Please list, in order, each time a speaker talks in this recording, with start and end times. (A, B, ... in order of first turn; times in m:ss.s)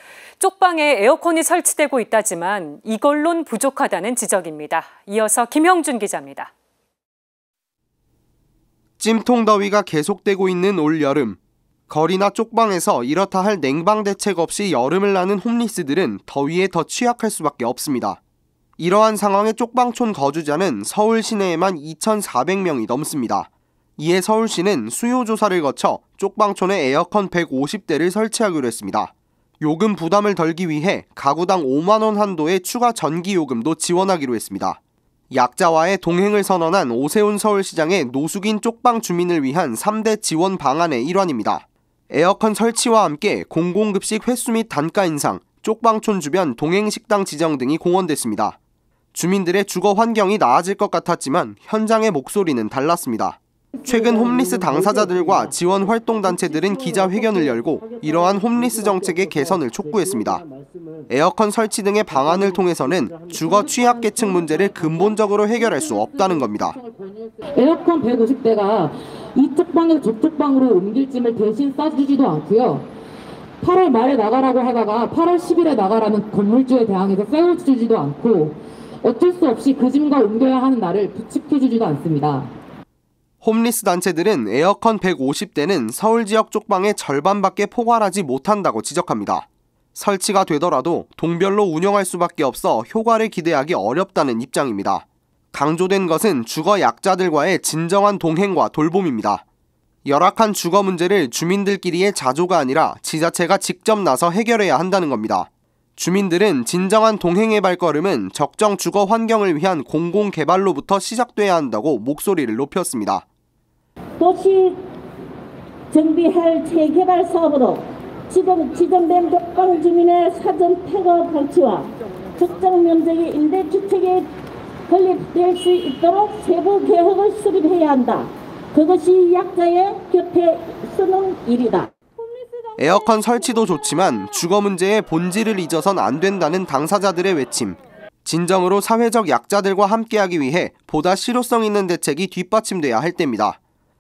0:00.4-0:06.5 A
0:09.0-0:11.4 B
0:11.9-0:18.2 B
0:18.8-0:34.8 B
0:35.3-0:48.6 B
0:49.1-1:00.4 B
1:01.1-1:06.8 B
1:03.4-1:12.9 C
1:13.6-1:22.5 C
1:23.4-1:39.4 B
1:40.0-1:53.2 B
1:54.2-1:54.8 D
1:55.9-2:04.3 D
2:04.9-2:11.9 D
2:12.8-2:23.6 B